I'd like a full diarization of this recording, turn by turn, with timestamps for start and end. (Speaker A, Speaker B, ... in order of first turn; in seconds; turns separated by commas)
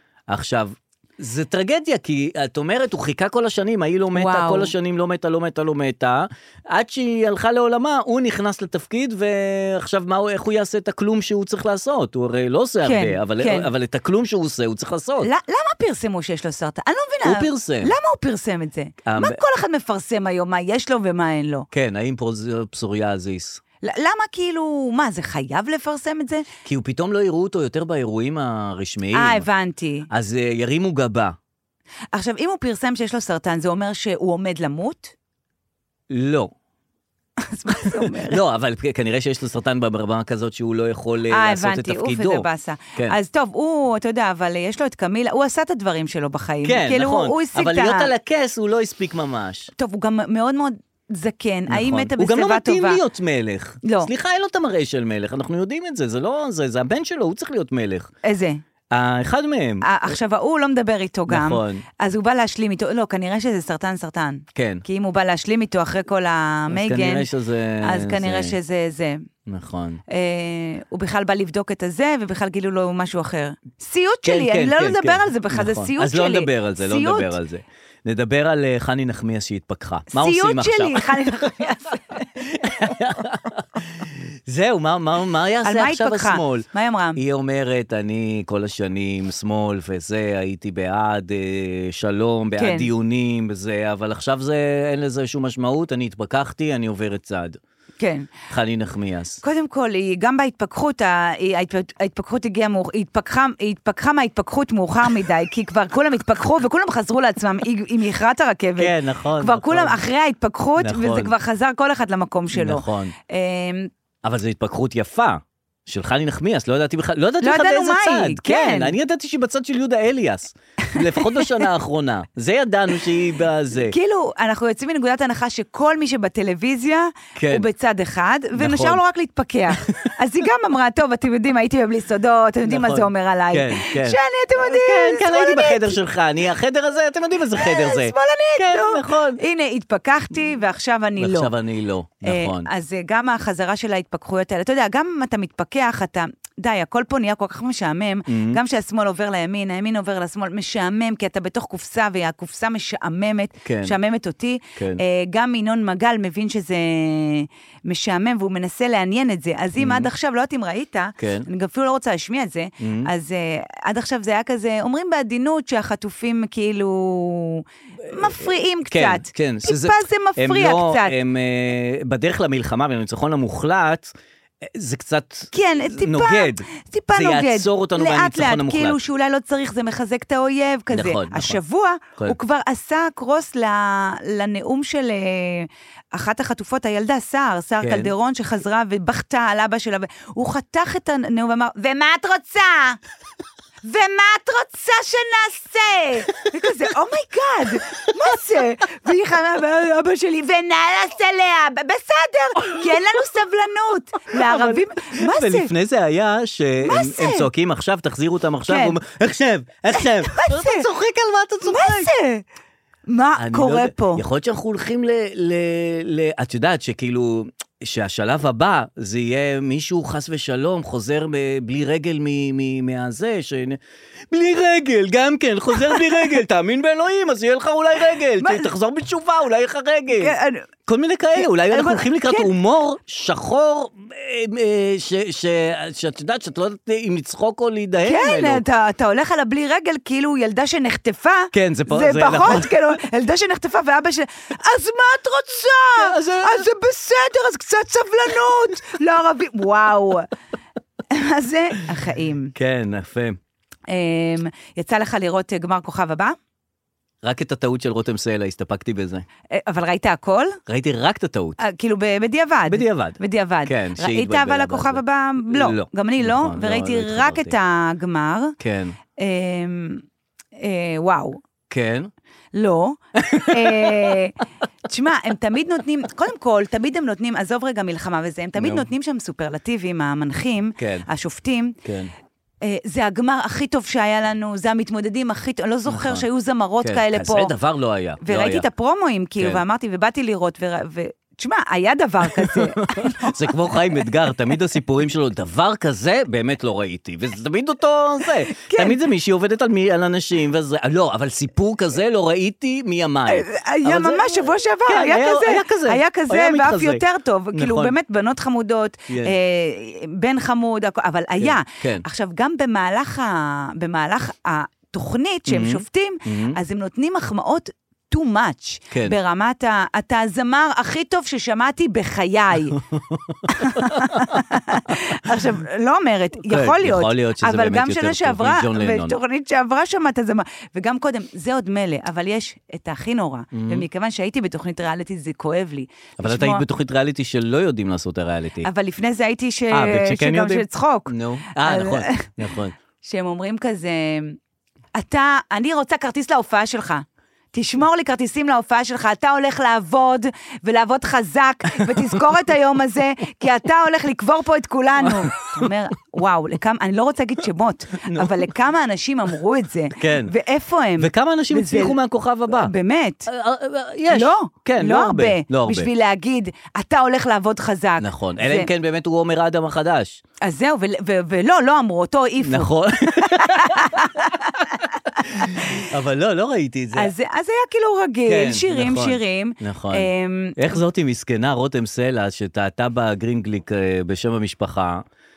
Speaker A: 0.3-15.3, Speaker B: 4.1-4.7, Speaker B: 12.8-13.7, Speaker B: 15.2-21.7, Speaker A: 17.2-17.9, Speaker A: 19.1-19.4, Speaker A: 21.7-23.6, Speaker B: 23.8-26.4, Speaker A: 26.6-29.5, Speaker B: 29.1-30.1, Speaker A: 30.1-31.4, Speaker B: 32.1-35.1, Speaker A: 36.1-36.5, Speaker B: 37.4-38.4, Speaker A: 37.9-43.2, Speaker B: 41.3-48.1, Speaker A: 46.6-49.7, Speaker B: 49.8-53.0, Speaker A: 51.7-58.1, Speaker B: 53.8-54.1, Speaker B: 58.2-58.6, Speaker A: 58.9-60.1, Speaker B: 59.8-67.3, Speaker A: 61.3-61.9, Speaker A: 64.5-64.8, Speaker A: 66.7-68.6, Speaker B: 67.8-69.2, Speaker A: 69.5-70.0, Speaker B: 70.1-77.3, Speaker A: 74.2-81.5, Speaker B: 80.1-82.2, Speaker A: 82.4-97.6, Speaker B: 85.6-87.2, Speaker B: 92.6-92.9, Speaker B: 98.0-98.3, Speaker A: 98.5-99.4, Speaker B: 99.4-113.9, Speaker A: 108.8-110.0, Speaker A: 110.8-111.3, Speaker A: 112.5-113.2, Speaker A: 114.2-124.0, Speaker B: 117.4-119.0, Speaker B: 121.3-121.6, Speaker B: 123.9-136.0, Speaker A: 127.3-127.7, Speaker A: 128.6-129.0, Speaker A: 129.7-130.1, Speaker A: 132.7-139.4, Speaker B: 137.6-141.5, Speaker A: 141.2-142.7, Speaker B: 142.2-171.2, Speaker A: 148.3-148.6, Speaker A: 153.6-154.0, Speaker A: 154.8-155.0, Speaker A: 159.8-160.1, Speaker A: 161.2-161.5, Speaker A: 162.8-163.1, Speaker A: 168.1-179.0, Speaker B: 175.5-193.0, Speaker A: 180.9-181.6, Speaker A: 187.8-188.1, Speaker B: 193.8-205.7, Speaker A: 204.3-212.1, Speaker B: 206.8-207.5, Speaker B: 208.7-209.0, Speaker B: 209.9-210.9, Speaker B: 211.6-212.4, Speaker B: 213.1-214.2, Speaker A: 213.4-223.8, Speaker A: 224.3-230.3, Speaker B: 228.4-228.7, Speaker B: 230.2-230.7, Speaker A: 230.9-238.6, Speaker B: 231.4-232.5, Speaker B: 238.0-250.3, Speaker A: 241.5-242.8, Speaker A: 246.0-246.7, Speaker B: 251.1-252.5, Speaker A: 252.6-253.4, Speaker B: 253.9-256.4, Speaker A: 257.2-259.2, Speaker B: 259.5-260.6, Speaker A: 260.7-261.6, Speaker B: 261.6-268.6, Speaker A: 262.7-267.6, Speaker A: 268.6-269.0, Speaker B: 269.2-270.0, Speaker B: 270.6-271.4, Speaker A: 271.7-272.1, Speaker B: 272.5-281.8, Speaker A: 273.2-274.2, Speaker A: 278.6-278.9, Speaker A: 280.8-281.1, Speaker A: 281.8-282.1, Speaker B: 282.6-287.5, Speaker A: 285.9-286.3, Speaker A: 286.8-288.7, Speaker B: 288.2-293.7, Speaker A: 292.2-307.9, Speaker B: 298.5-299.0, Speaker B: 303.3-322.8, Speaker A: 309.1-309.4, Speaker A: 311.4-312.1, Speaker A: 315.5-316.6, Speaker A: 318.9-319.2, Speaker A: 322.7-324.4, Speaker B: 323.5-336.6, Speaker A: 326.4-329.2, Speaker A: 333.5-333.9, Speaker A: 336.2-338.7, Speaker B: 338.6-342.3, Speaker A: 339.7-342.8, Speaker B: 343.0-344.4, Speaker B: 345.0-362.0, Speaker A: 351.8-352.2, Speaker A: 355.0-355.7, Speaker A: 358.1-358.4, Speaker A: 360.0-360.3, Speaker A: 361.0-362.7, Speaker B: 362.6-363.3, Speaker A: 363.3-365.9, Speaker B: 364.1-368.7, Speaker A: 368.0-370.2, Speaker B: 370.4-375.7, Speaker A: 372.4-374.2, Speaker A: 375.2-377.1, Speaker B: 376.9-380.6, Speaker A: 378.3-385.0